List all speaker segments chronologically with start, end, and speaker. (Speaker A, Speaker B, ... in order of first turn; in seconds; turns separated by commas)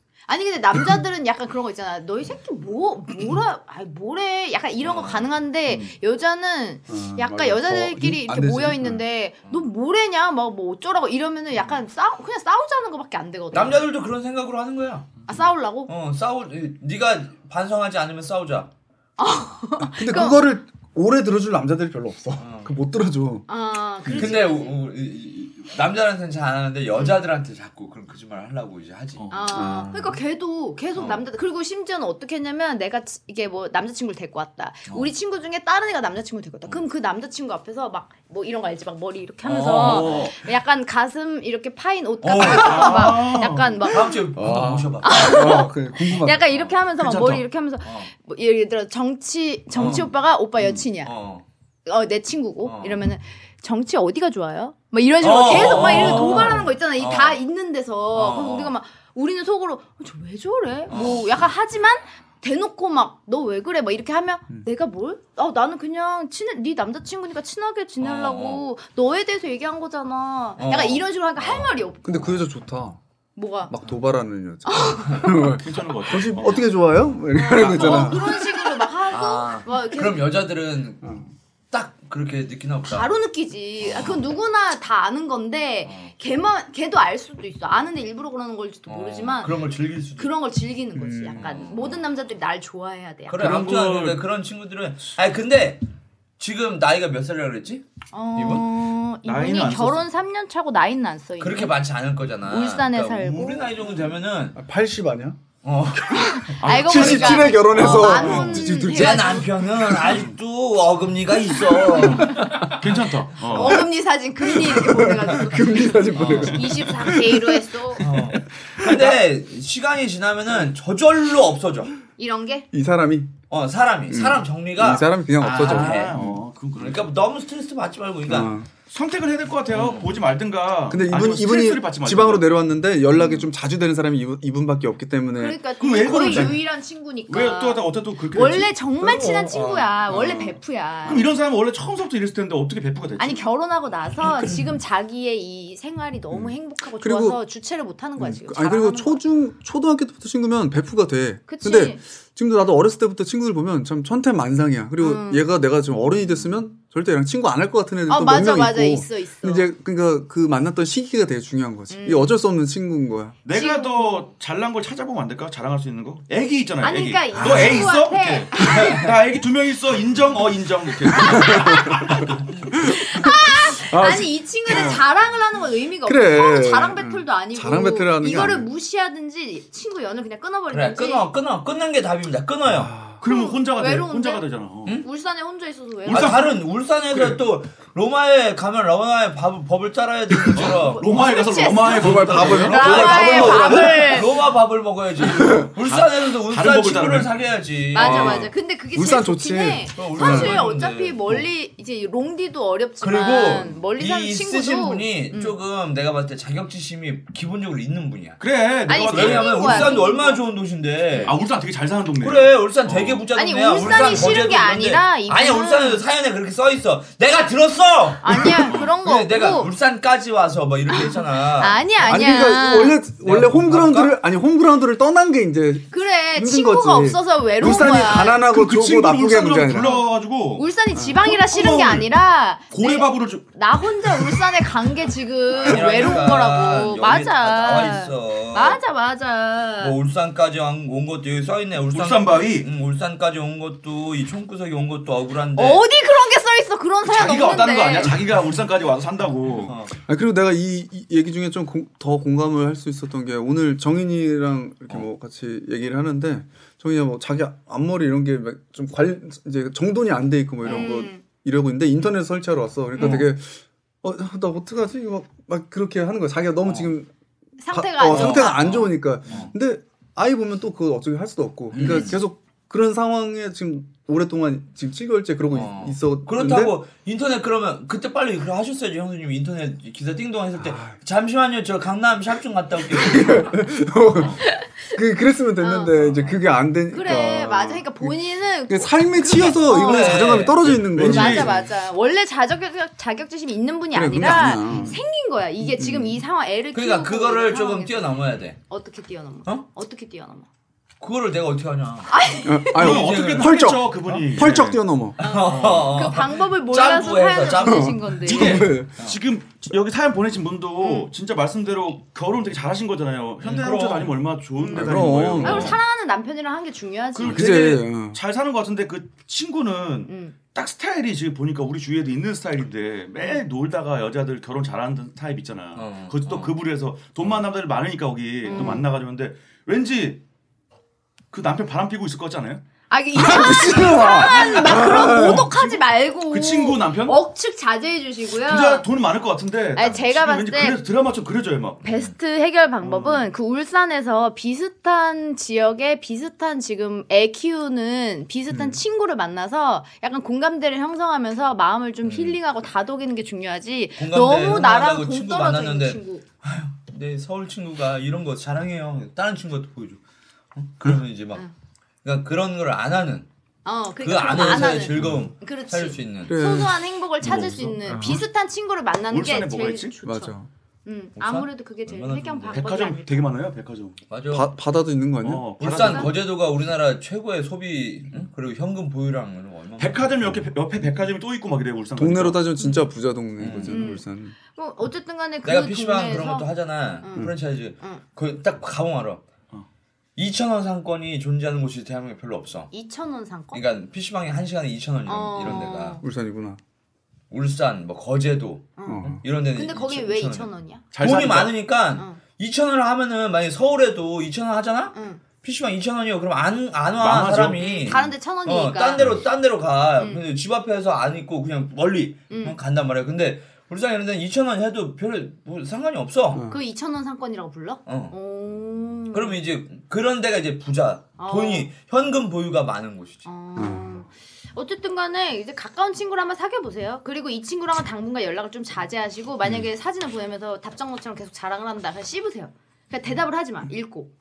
Speaker A: 0.3-13.8, Speaker B: 4.8-5.3, Speaker C: 6.9-9.0, Speaker B: 13.5-15.2, Speaker A: 15.3-15.9, Speaker B: 15.9-18.7, Speaker A: 19.2-20.5, Speaker C: 19.8-23.4, Speaker B: 22.4-22.7, Speaker A: 23.5-24.8, Speaker C: 24.0-24.4, Speaker B: 24.1-30.2, Speaker D: 29.2-29.6, Speaker A: 29.3-44.2, Speaker C: 29.5-29.9, Speaker B: 30.9-31.2, Speaker B: 39.4-40.4, Speaker D: 39.8-40.3, Speaker B: 42.2-45.5, Speaker D: 42.4-43.9, Speaker C: 44.4-46.5, Speaker A: 45.0-51.1, Speaker D: 47.0-47.4, Speaker B: 49.7-50.1, Speaker B: 51.0-51.4, Speaker A: 51.9-72.4, Speaker B: 52.6-53.0, Speaker B: 55.2-57.4, Speaker B: 58.1-58.7, Speaker B: 60.9-61.2, Speaker B: 68.0-68.6, Speaker B: 70.6-72.4, Speaker C: 72.0-73.0, Speaker A: 73.3-73.7, Speaker C: 73.7-78.4, Speaker A: 74.6-75.5, Speaker D: 75.6-76.6, Speaker A: 77.3-80.2, Speaker B: 77.5-78.2, Speaker B: 79.1-81.1, Speaker C: 81.0-81.3, Speaker B: 81.7-83.1, Speaker A: 82.9-89.6, Speaker B: 83.8-84.2, Speaker B: 85.8-86.1, Speaker B: 88.9-90.3, Speaker A: 90.2-93.4, Speaker C: 90.9-91.6, Speaker B: 91.3-92.1, Speaker B: 93.3-95.8, Speaker D: 93.4-94.2, Speaker B: 96.4-97.8, Speaker A: 98.1-101.7, Speaker B: 98.3-98.7, Speaker D: 99.2-100.0, Speaker B: 101.4-104.6, Speaker A: 102.5-104.0, Speaker C: 104.5-105.4, Speaker B: 105.6-107.1, Speaker A: 106.1-110.0, Speaker D: 106.6-108.4, Speaker C: 106.7-110.3, Speaker B: 108.0-113.8, Speaker C: 111.5-112.8, Speaker D: 112.1-113.8, Speaker A: 113.4-118.0, Speaker C: 114.4-117.6, Speaker B: 116.1-116.9, Speaker B: 118.0-121.9, Speaker A: 122.2-122.7, Speaker C: 122.7-123.4, Speaker B: 123.5-126.2, Speaker C: 124.1-126.4, Speaker D: 125.5-127.1, Speaker B: 126.7-128.6, Speaker C: 128.3-128.7, Speaker D: 128.9-132.5, Speaker B: 129.7-130.1, Speaker C: 130.9-135.6, Speaker A: 135.4-141.3, Speaker D: 135.8-136.6, Speaker D: 137.3-138.8, Speaker C: 139.0-140.6, Speaker D: 141.0-143.4, Speaker A: 143.2-149.2, Speaker C: 146.3-147.4, Speaker C: 148.2-163.4, Speaker A: 151.5-152.0, Speaker A: 155.0-155.5, Speaker A: 158.1-159.6, Speaker A: 161.9-162.3, Speaker D: 163.4-172.4, Speaker A: 163.5-164.3, Speaker A: 166.8-169.0, Speaker C: 167.4-167.9, Speaker B: 168.6-169.0, Speaker A: 171.1-172.1, Speaker C: 171.4-175.0, Speaker A: 172.7-181.3, Speaker C: 176.1-178.7, Speaker B: 180.7-182.9, Speaker C: 182.7-183.2, Speaker D: 183.2-185.0, Speaker A: 183.2-184.5, Speaker A: 185.0-186.5, Speaker D: 186.1-186.6, Speaker B: 186.1-191.2, Speaker D: 187.1-187.4, Speaker C: 190.3-190.6, Speaker D: 190.5-193.6, Speaker A: 190.6-194.4, Speaker C: 191.8-194.1, Speaker B: 192.3-198.5, Speaker C: 195.2-195.7, Speaker D: 195.8-197.3, Speaker A: 197.9-205.5, Speaker C: 198.0-200.6, Speaker B: 200.0-201.2, Speaker B: 203.0-208.4, Speaker D: 208.4-209.9, Speaker A: 208.9-210.4, Speaker B: 209.1-211.3, Speaker D: 211.2-213.2, Speaker B: 212.2-221.8, Speaker A: 213.3-216.0, Speaker D: 213.8-214.5, Speaker A: 218.2-219.7, Speaker D: 218.7-218.9, Speaker A: 220.9-223.0, Speaker C: 222.0-229.9, Speaker B: 223.2-224.1, Speaker A: 225.9-228.5, Speaker D: 228.4-232.1, Speaker A: 229.7-239.9, Speaker D: 232.7-233.5, Speaker B: 235.5-238.8, Speaker B: 239.8-245.8, Speaker D: 241.9-242.7, Speaker A: 245.6-248.2, Speaker D: 247.0-249.7, Speaker B: 249.7-249.9, Speaker C: 249.9-267.1, Speaker A: 260.6-261.2, Speaker B: 263.0-263.2, Speaker B: 266.6-266.9, Speaker A: 267.6-268.9, Speaker C: 267.7-276.8, Speaker B: 268.0-269.5, Speaker B: 271.7-272.2, Speaker B: 275.5-283.6, Speaker C: 280.6-280.9, Speaker C: 282.9-288.1, Speaker A: 284.4-284.9, Speaker A: 285.6-285.9, Speaker B: 285.9-286.4, Speaker A: 286.9-290.4, Speaker C: 288.7-291.7, Speaker B: 289.4-290.8, Speaker D: 290.6-291.5, Speaker A: 291.0-298.1, Speaker C: 293.9-295.0, Speaker C: 295.6-296.2, Speaker B: 296.7-298.6, Speaker A: 298.7-300.5, Speaker B: 301.0-302.1, Speaker A: 302.1-302.8, Speaker C: 302.4-305.2, Speaker B: 302.7-304.4, Speaker D: 302.7-304.8, Speaker B: 305.2-309.2, Speaker A: 305.2-308.6, Speaker D: 305.4-305.9, Speaker C: 307.6-308.9, Speaker D: 308.2-315.8, Speaker A: 310.8-311.1, Speaker B: 313.4-314.2, Speaker A: 314.6-317.7, Speaker C: 314.7-315.8, Speaker D: 317.1-330.2, Speaker C: 317.2-318.2, Speaker A: 320.1-320.3, Speaker B: 325.7-326.6, Speaker A: 328.4-328.9, Speaker D: 331.3-332.6, Speaker A: 332.9-338.9, Speaker C: 333.1-335.5, Speaker D: 334.7-337.2, Speaker D: 338.4-341.8, Speaker A: 339.7-340.8, Speaker A: 341.8-356.2, Speaker D: 342.8-343.2, Speaker C: 348.5-348.8, Speaker B: 352.0-352.4, Speaker B: 354.0-360.0, Speaker B: 360.5-361.4, Speaker B: 362.0-363.3, Speaker A: 363.6-370.3, Speaker B: 364.0-366.4, Speaker C: 364.3-365.3, Speaker C: 366.2-368.2, Speaker D: 367.3-368.2, Speaker D: 369.1-369.9, Speaker C: 370.0-370.5, Speaker A: 370.8-373.3, Speaker B: 371.2-372.6, Speaker D: 372.5-374.0, Speaker B: 374.1-374.5, Speaker C: 374.3-375.5, Speaker D: 375.2-376.1, Speaker B: 375.6-380.0, Speaker A: 375.8-376.1, Speaker D: 379.8-382.4, Speaker C: 381.9-384.3, Speaker A: 382.6-382.9, Speaker B: 383.4-383.9, Speaker A: 383.7-386.5, Speaker B: 385.4-389.2, Speaker A: 387.0-388.0, Speaker B: 390.2-392.7, Speaker A: 392.7-393.6, Speaker B: 393.5-396.0, Speaker A: 395.1-396.0, Speaker C: 396.0-396.6, Speaker B: 397.3-416.4, Speaker A: 398.8-400.8, Speaker C: 398.9-399.2, Speaker D: 400.9-401.5, Speaker A: 401.9-402.2, Speaker A: 404.9-405.2, Speaker D: 407.0-408.1, Speaker A: 407.6-409.1, Speaker A: 412.3-412.6, Speaker C: 416.3-416.6, Speaker A: 416.5-419.4, Speaker B: 417.9-418.1, Speaker B: 419.1-423.3, Speaker A: 421.2-421.7, Speaker A: 423.2-434.1, Speaker C: 423.6-424.1